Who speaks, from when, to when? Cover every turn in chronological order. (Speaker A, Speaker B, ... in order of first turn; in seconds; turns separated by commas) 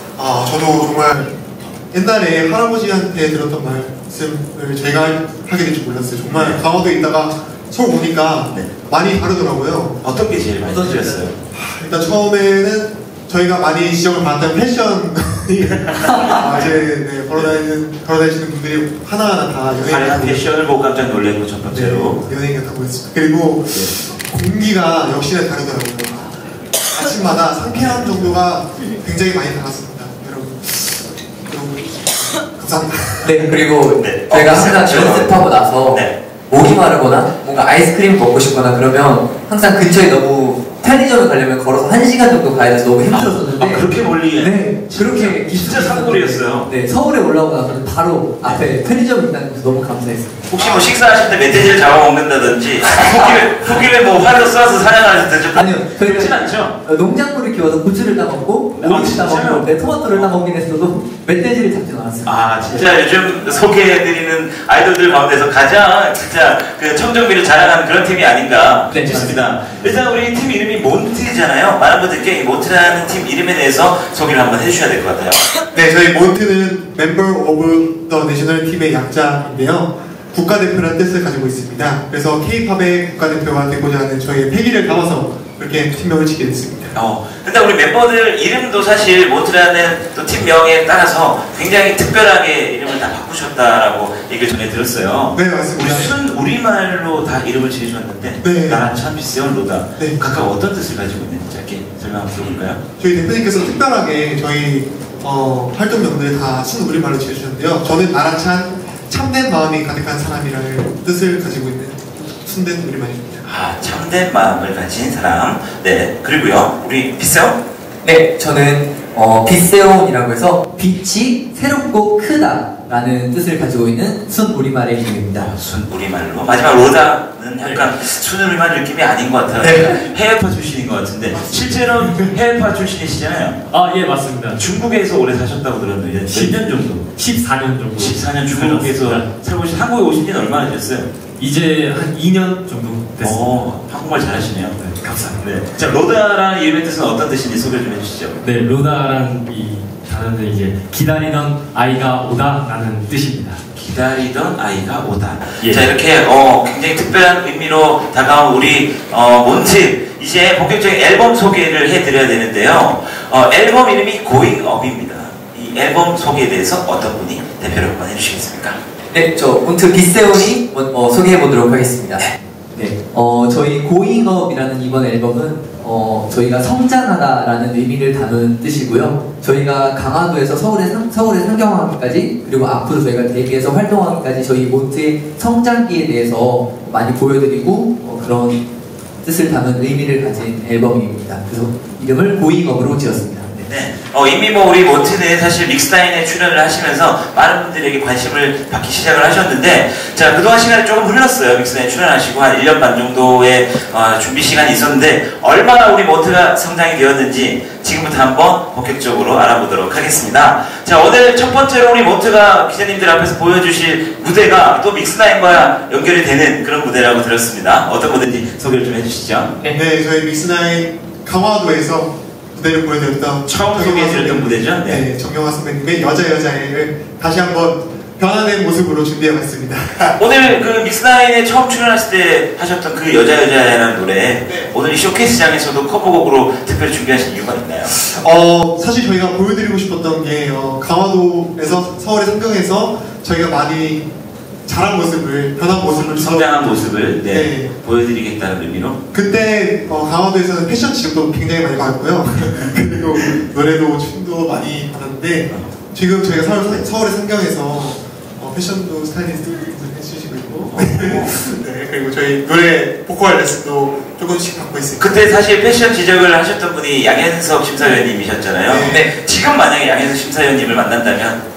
Speaker A: 0.2-10.0, Speaker B: 6.3-6.6, Speaker B: 10.0-11.3, Speaker C: 10.6-11.3, Speaker A: 11.5-20.5, Speaker B: 15.8-16.7, Speaker C: 16.1-16.4, Speaker B: 19.8-22.2, Speaker A: 21.7-33.4, Speaker B: 27.7-28.4, Speaker C: 33.2-50.5, Speaker B: 34.0-35.3, Speaker B: 35.9-36.2, Speaker B: 43.1-46.7, Speaker B: 50.5-56.8, Speaker C: 52.9-53.7, Speaker C: 55.5-62.9, Speaker B: 58.8-60.4, Speaker B: 62.2-75.4, Speaker C: 68.9-69.5, Speaker A: 75.7-87.0, Speaker B: 86.9-102.8, Speaker A: 95.3-96.2, Speaker A: 98.4-98.9, Speaker A: 100.0-100.2, Speaker A: 103.0-113.4, Speaker B: 113.4-117.6, Speaker C: 118.0-125.5, Speaker B: 125.4-133.6, Speaker D: 127.6-127.9, Speaker C: 129.6-130.0, Speaker A: 131.3-132.4, Speaker D: 133.7-134.7, Speaker B: 134.6-137.1, Speaker D: 136.2-136.6, Speaker D: 137.1-139.2, Speaker B: 138.0-141.1, Speaker D: 141.4-143.5, Speaker B: 143.2-148.4, Speaker D: 145.0-145.4, Speaker D: 148.4-153.6, Speaker B: 153.8-168.8, Speaker D: 155.6-155.8, Speaker C: 169.1-188.7, Speaker C: 189.2-193.7, Speaker B: 193.7-219.6, Speaker A: 219.7-230.6, Speaker B: 223.5-225.1, Speaker B: 230.2-238.0, Speaker A: 234.5-234.7, Speaker A: 237.9-244.1, Speaker A: 244.7-246.7, Speaker B: 245.9-249.0, Speaker A: 247.2-247.7, Speaker A: 249.1-265.3, Speaker B: 252.6-253.4, Speaker B: 260.7-261.4, Speaker B: 265.0-271.4, Speaker A: 268.7-269.1, Speaker C: 268.8-269.1